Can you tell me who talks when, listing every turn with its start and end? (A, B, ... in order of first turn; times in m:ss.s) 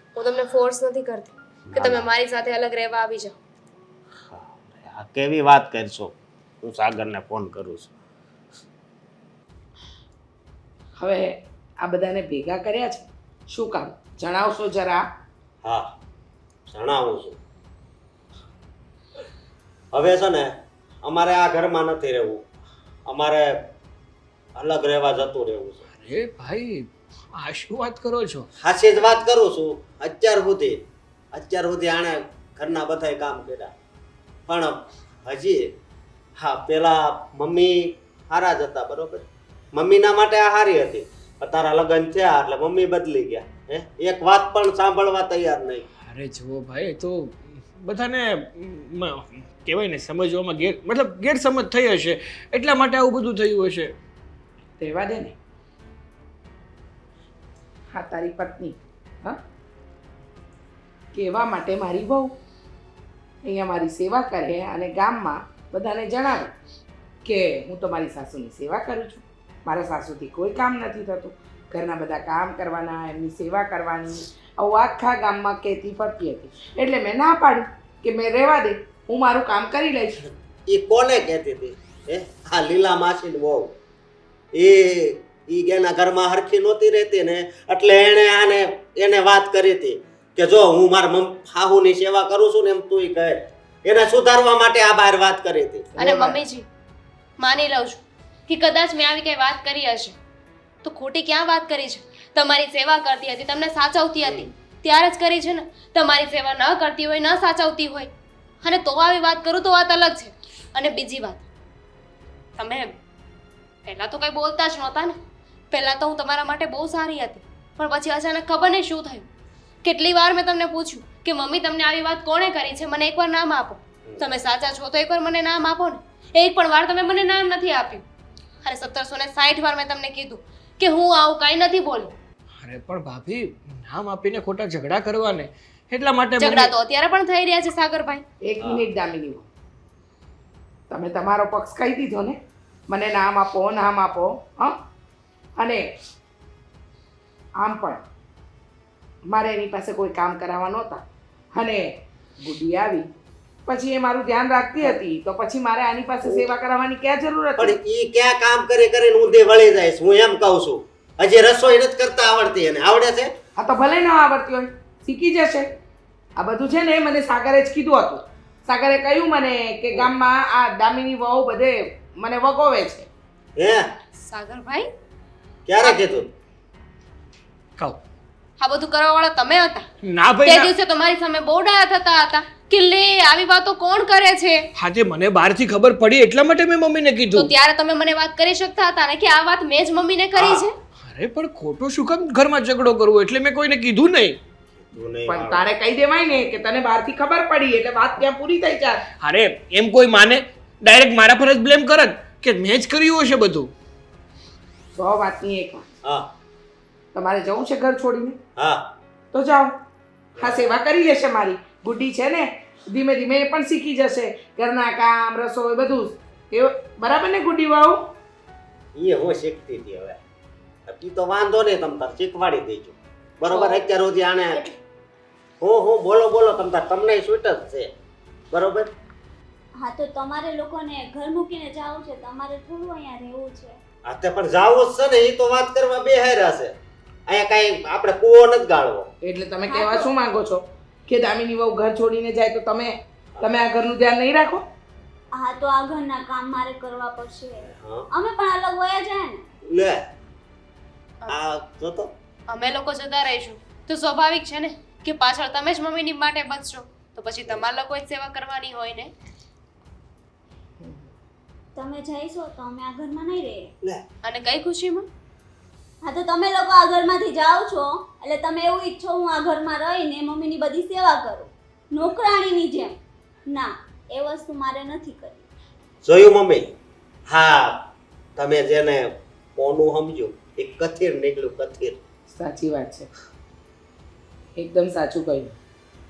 0:00.2-0:03.4 A
0:01.7-0:02.1 B
0:04.3-0:07.9 B
0:11.0-0:15.0 C
0:16.7-0:17.4 B
0:19.9-0:22.4 B
0:23.1-0:23.5 B
0:24.6-0:25.8 B
0:26.0-0:28.5 D
0:28.6-0:33.7 B
0:34.5-0:35.8 B
0:36.4-0:45.8 B
0:46.0-0:54.0 D
0:54.8-0:55.4 C
0:57.9-0:59.4 C
1:01.1-1:02.4 C
1:03.4-1:06.5 C
1:07.2-1:20.2 C
1:20.7-1:23.8 B
1:24.5-1:36.0 B
1:36.0-1:36.4 C
1:36.0-1:36.7 A
1:37.4-1:40.2 A
1:40.8-1:48.1 A
1:48.6-1:51.4 A
1:52.6-1:53.0 A
1:53.9-1:55.2 A
1:55.7-1:59.2 A
1:59.8-2:08.0 A
2:08.6-2:12.1 A
2:12.6-2:16.7 D
2:16.4-2:18.2 A
2:18.4-2:19.5 C
2:20.9-2:24.8 C
2:25.6-2:25.8 C
2:27.6-2:28.0 C
2:29.3-2:31.0 C
2:31.5-2:33.1 C
2:33.7-2:37.8 C
2:37.6-2:43.3 B
2:43.6-2:45.7 C
2:46.4-2:53.1 C
2:53.6-2:53.9 B
2:54.2-2:54.9 A
2:55.7-2:56.3 B
2:58.6-2:59.8 A
3:00.0-3:00.7 D
3:00.4-3:04.6 A
3:04.8-3:07.5 D
3:07.3-3:10.8 A
3:10.4-3:10.6 B
3:11.0-3:14.4 D
3:14.8-3:15.7 B
3:15.3-3:19.0 C
3:19.2-3:23.7 D
3:24.9-3:25.9 C
3:26.0-3:26.3 B
3:27.1-3:28.4 C
3:28.6-3:28.9 B
3:29.3-3:29.8 C
3:30.4-3:30.6 B
3:30.4-3:38.0 C
3:39.0-3:40.2 B
3:40.9-3:44.6 B
3:43.5-3:43.8 E
3:45.6-3:47.9 B
3:48.5-3:48.9 B
3:49.8-3:53.8 E
3:54.0-3:56.8 B
3:57.3-3:59.1 B
3:59.2-4:04.6 C
3:59.7-4:00.1 E
4:05.3-4:09.4 E
4:07.8-4:08.1 B
4:09.6-4:10.0 B
4:11.3-4:12.1 B
4:12.5-4:19.1 A
4:20.8-4:21.1 C
4:21.8-4:23.7 E
4:24.2-4:25.1 A
4:26.0-4:35.4 E
4:36.0-4:36.7 B
4:37.3-4:42.0 B
4:42.3-4:43.1 C
4:44.6-4:45.6 C